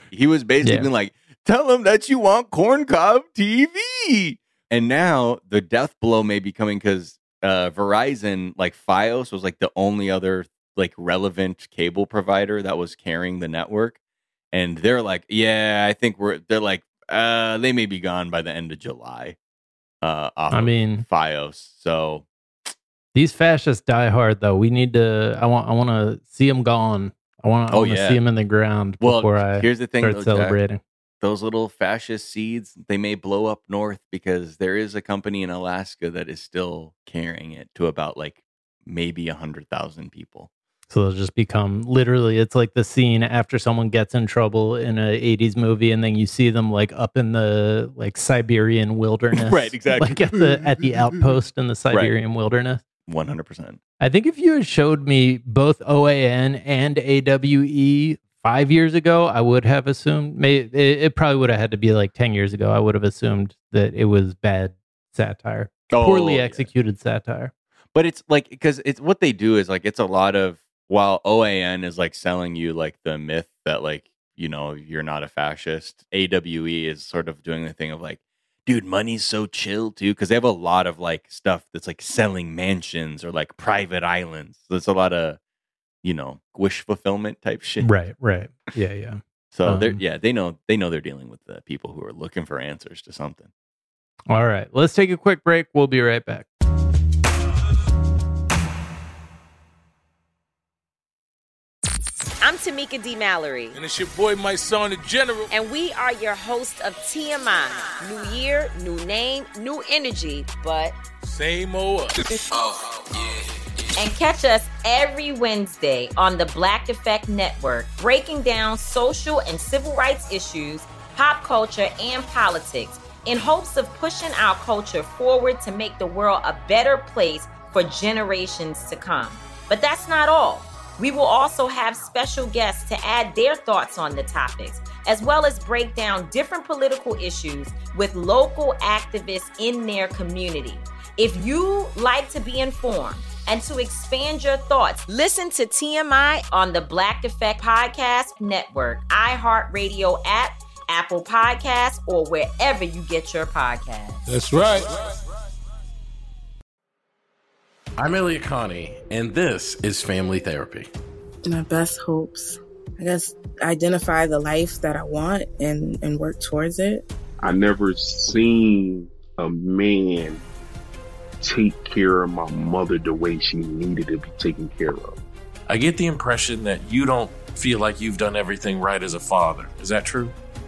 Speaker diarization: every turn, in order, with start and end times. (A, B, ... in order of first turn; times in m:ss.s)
0:00.1-0:14.0 A
0:00.6-0:00.9 B
0:14.5-0:19.4 A
0:20.0-0:22.2 A
0:20.5-0:21.0 B
0:23.1-0:30.8 B
0:27.7-0:28.2 A
0:29.0-0:30.6 A
0:31.2-0:40.5 A
0:40.9-0:52.8 B
0:49.3-0:51.0 A
0:53.0-0:53.8 A
0:54.0-1:07.5 B
1:05.9-1:06.7 A
1:07.9-1:25.4 A
1:26.0-1:27.9 A
1:27.8-1:30.0 B
1:29.5-1:33.5 A
1:34.3-1:36.5 B
1:42.4-1:43.7 C
1:43.7-1:45.5 D
1:45.5-1:51.0 C
1:51.2-1:52.2 D
1:54.0-2:34.2 C
2:34.2-2:35.1 D
2:38.0-2:40.9 E
2:41.4-2:47.0 F
2:47.4-2:50.4 G
2:51.4-2:55.2 G
2:55.7-3:00.3 E